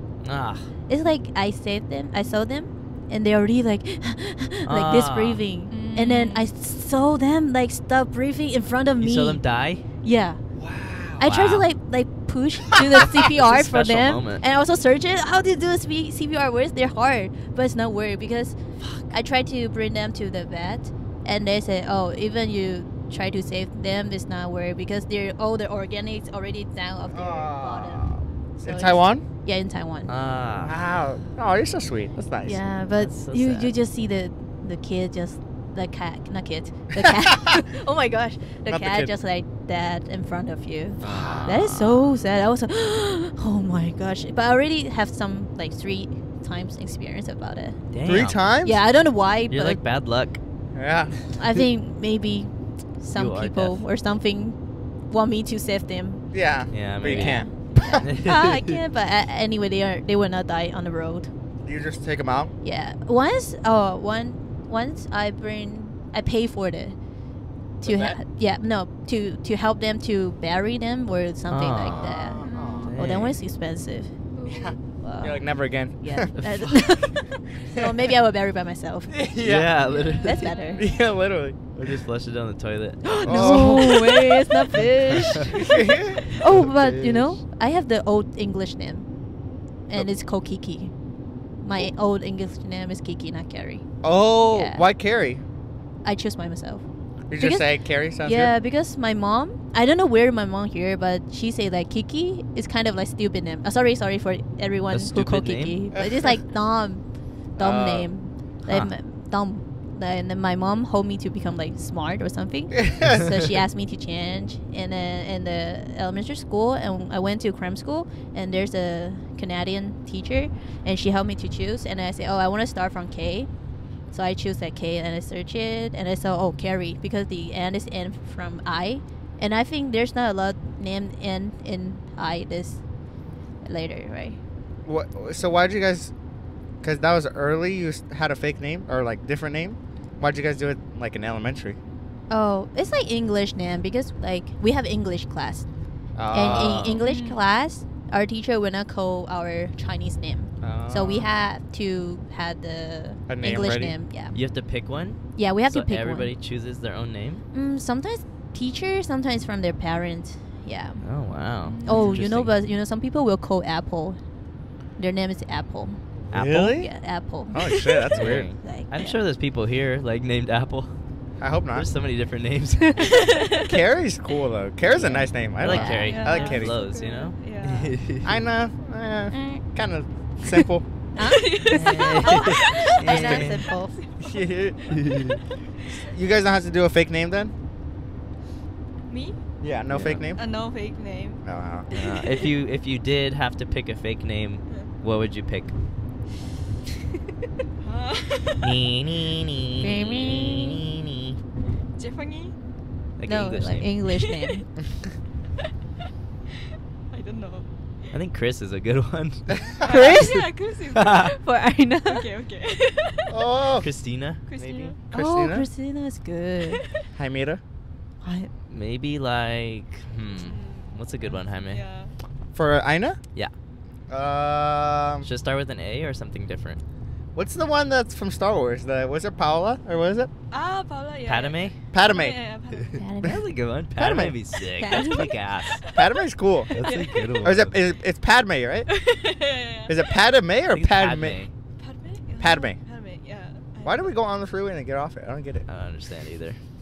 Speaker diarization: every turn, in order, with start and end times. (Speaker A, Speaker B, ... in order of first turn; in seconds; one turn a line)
Speaker A: 0.2-0.7
Speaker B: 0.9-9.4
Speaker A: 4.7-5.4
Speaker C: 5.7-6.5
Speaker A: 9.0-9.8
Speaker B: 10.0-10.4
Speaker D: 10.6-11.2
Speaker B: 11.2-18.6
Speaker A: 11.2-11.7
Speaker D: 12.7-13.1
Speaker A: 13.0-14.4
Speaker A: 18.8-19.1
Speaker B: 19.1-30.1
Speaker D: 27.1-29.2
Speaker A: 30.1-30.8
Speaker D: 30.6-32.6
Speaker B: 32.4-47.8
Speaker A: 33.0-33.7
Speaker D: 38.7-39.1
Speaker A: 41.0-42.0
Speaker D: 41.0-41.7
Speaker A: 47.9-48.4
Speaker D: 48.0-48.8
Speaker B: 48.6-49.8
Speaker A: 49.5-50.4
Speaker D: 50.7-51.1
Speaker B: 51.3-56.2
Speaker A: 53.1-53.8
Speaker D: 56.3-58.0
Speaker A: 56.7-57.5
Speaker B: 57.0-61.3
Speaker A: 58.0-58.5
Speaker D: 61.6-62.5
Speaker B: 62.6-67.0
Speaker B: 67.8-72.4
Speaker D: 67.8-68.2
Speaker A: 71.5-72.1
Speaker D: 71.8-73.0
Speaker C: 72.4-72.9
Speaker A: 72.9-73.4
Speaker B: 73.0-74.1
Speaker C: 74.3-74.8
Speaker D: 74.5-76.3
Speaker B: 75.0-75.4
Speaker B: 76.0-79.1
Speaker A: 76.4-76.8
Speaker D: 77.8-78.1
Speaker D: 79.1-79.7
Speaker A: 79.4-80.5
Speaker C: 79.8-81.0
Speaker B: 80.2-80.8
Speaker D: 80.7-81.6
Speaker A: 81.7-83.9
Speaker B: 83.0-85.8
Speaker D: 83.2-84.2
Speaker A: 84.7-85.5
Speaker D: 85.4-86.3
Speaker B: 86.3-89.1
Speaker A: 86.4-87.4
Speaker B: 89.9-90.9
Speaker B: 91.6-93.8
Speaker D: 94.0-95.4
Speaker B: 94.5-94.8
Speaker B: 96.0-96.8
Speaker D: 97.3-98.5
Speaker B: 97.4-97.7
Speaker B: 98.2-123.5
Speaker A: 104.9-105.8
Speaker D: 107.6-108.1
Speaker D: 112.7-113.3
Speaker B: 124.1-132.8
Speaker B: 133.6-134.4
Speaker D: 134.8-136.1
Speaker D: 136.8-141.8
Speaker B: 142.3-145.7
Speaker D: 146.2-147.0
Speaker B: 146.3-154.3
Speaker C: 147.0-147.4
Speaker D: 150.6-151.3
Speaker D: 153.3-153.9
Speaker A: 154.3-157.4
Speaker B: 155.3-156.3
Speaker B: 157.5-161.0
Speaker A: 161.0-162.5
Speaker C: 161.6-162.2
Speaker B: 161.8-164.2
Speaker B: 165.0-169.2
Speaker A: 166.3-166.7
Speaker D: 166.3-166.9
Speaker D: 167.5-168.5
Speaker C: 167.6-168.0
Speaker A: 168.1-171.0
Speaker D: 171.4-171.8
Speaker A: 171.7-173.1
Speaker B: 173.0-173.3
Speaker C: 173.2-173.7
Speaker D: 173.6-176.8
Speaker A: 174.9-178.4
Speaker B: 175.7-176.2
Speaker C: 176.0-177.9
Speaker D: 178.2-180.8
Speaker B: 179.3-179.6
Speaker B: 181.2-184.0
Speaker C: 181.2-184.4
Speaker A: 181.8-183.6
Speaker D: 183.1-183.4
Speaker D: 184.2-185.0
Speaker A: 184.9-185.4
Speaker D: 186.0-187.5
Speaker C: 189.1-189.4
Speaker D: 189.6-190.4
Speaker A: 189.9-190.3
Speaker C: 190.3-192.5
Speaker D: 191.4-191.8
Speaker A: 191.9-195.7
Speaker C: 197.8-198.7
Speaker A: 198.6-200.6
Speaker D: 198.6-201.3
Speaker B: 199.8-200.8
Speaker C: 202.0-202.5
Speaker A: 203.2-203.9
Speaker B: 203.2-204.6
Speaker C: 204.1-204.6
Speaker C: 207.1-207.7
Speaker A: 208.1-209.5
Speaker D: 209.5-209.8
Speaker C: 209.7-211.3
Speaker B: 209.8-210.5
Speaker A: 210.9-211.3
Speaker B: 211.2-212.2
Speaker C: 212.1-213.3
Speaker D: 213.3-213.9
Speaker A: 213.8-214.9
Speaker C: 214.5-215.0
Speaker D: 215.1-215.7
Speaker B: 215.1-216.8
Speaker C: 216.6-217.0
Speaker D: 217.1-217.6
Speaker B: 218.2-218.5
Speaker A: 218.7-221.8
Speaker C: 220.4-222.1
Speaker D: 222.5-223.2
Speaker D: 224.1-225.2
Speaker A: 225.2-226.8
Speaker D: 227.3-230.3
Speaker C: 230.5-233.1
Speaker A: 231.3-231.8
Speaker D: 231.9-232.4
Speaker B: 233.0-233.4
Speaker A: 233.2-235.8
Speaker D: 234.0-234.4
Speaker B: 234.8-235.3
Speaker C: 234.9-235.2
Speaker D: 235.9-236.7
Speaker A: 236.7-237.8
Speaker D: 237.4-238.9
Speaker C: 238.9-240.1
Speaker D: 239.9-241.4
Speaker A: 240.7-241.5
Speaker C: 241.8-244.1
Speaker D: 242.4-242.8
Speaker D: 243.8-245.6
Speaker A: 245.7-246.6